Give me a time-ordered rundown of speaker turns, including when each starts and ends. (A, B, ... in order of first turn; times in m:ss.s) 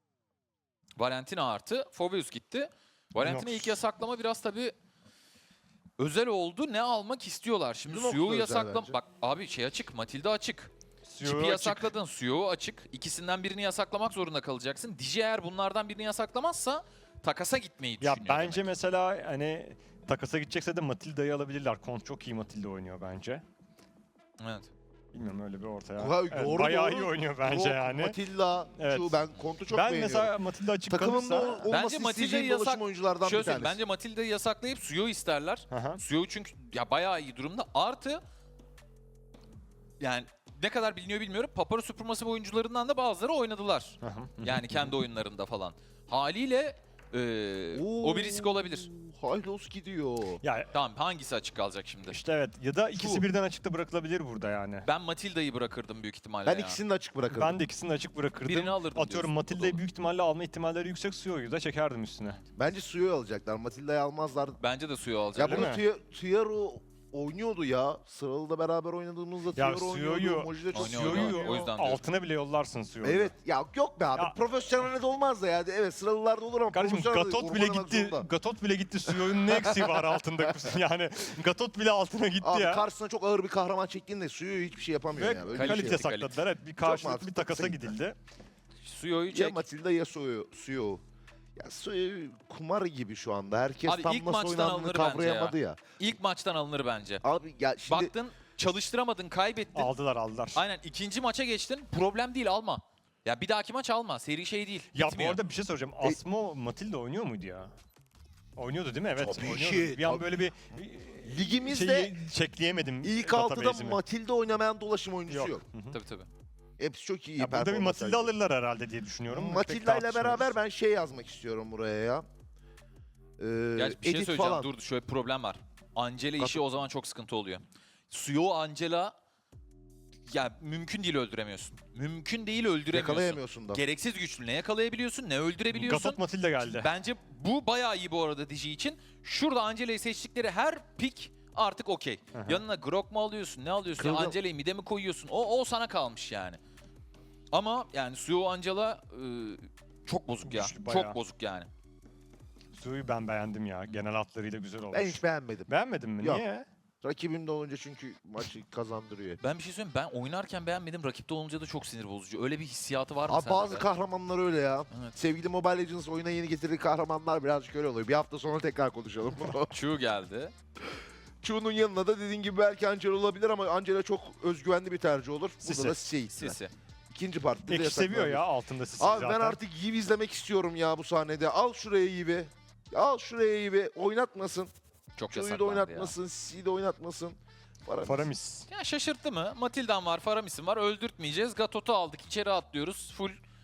0:01.0-0:04.7 A
0:03.2-0:03.8 B
0:06.0-0:10.7 A
0:07.8-0:09.0 C
0:11.1-0:11.9 B
0:11.2-0:18.7 A
0:18.0-0:23.4 B
0:24.4-0:24.7 A
0:25.1-0:28.2 B
0:26.0-0:30.3 C
0:28.8-0:29.2 B
0:29.7-0:31.7 B
0:30.9-0:33.8 C
0:31.7-0:38.2 A
0:35.7-0:36.0 B
0:40.0-0:48.9 A
0:44.0-0:45.0 B
0:47.7-0:50.4 C
0:50.4-0:50.7 B
0:50.7-0:52.2 A
0:52.1-0:54.9 B
0:52.9-0:53.2 C
0:54.8-0:56.8 A
0:56.4-0:57.6 C
0:57.3-1:02.4 B
0:58.4-0:59.8 A
1:02.6-1:04.6 C
1:04.6-1:05.7 A
1:05.3-1:11.4 C
1:05.5-1:05.8 B
1:09.5-1:13.3 B
1:10.7-1:12.0 A
1:13.0-1:18.3 C
1:16.7-1:22.8 B
1:19.1-1:20.5 C
1:22.4-1:26.0 C
1:25.2-1:28.2 B
1:25.5-1:26.4 A
1:26.8-1:27.9 C
1:28.8-1:29.6 A
1:29.3-1:31.0 C
1:31.6-1:35.8 C
1:33.9-1:37.2 A
1:37.2-1:38.1 C
1:37.9-1:39.9 A
1:39.7-1:40.6 B
1:40.5-1:45.4 A
1:44.9-1:47.7 B
1:48.6-1:54.0 B
1:49.2-1:50.2 C
1:51.2-1:52.2 C
1:53.0-1:55.6 C
1:55.3-1:55.9 B
1:55.9-1:56.3 A
1:56.8-1:58.3 C
1:57.4-2:00.6 B
1:59.3-2:02.2 C
2:03.4-2:04.7 C
2:03.7-2:09.1 A
2:10.3-2:26.6 A
2:12.9-2:13.8 C
2:15.7-2:16.9 B
2:22.3-2:22.6 B
2:24.0-2:24.4 C
2:27.5-2:31.7 A
2:30.4-2:31.2 B
2:32.7-2:36.6 B
2:34.9-2:36.4 C
2:37.0-2:39.4 C
2:39.4-2:43.8 A
2:43.3-2:49.7 C
2:49.7-2:50.5 A
2:51.4-2:56.6 C
2:55.6-2:56.0 B
2:56.3-2:56.7 A
2:57.1-2:58.4 C
2:57.7-2:59.6 B
2:59.0-3:04.7 C
3:05.2-3:06.1 A
3:05.3-3:08.3 C
3:08.0-3:08.6 B
3:08.7-3:13.4 A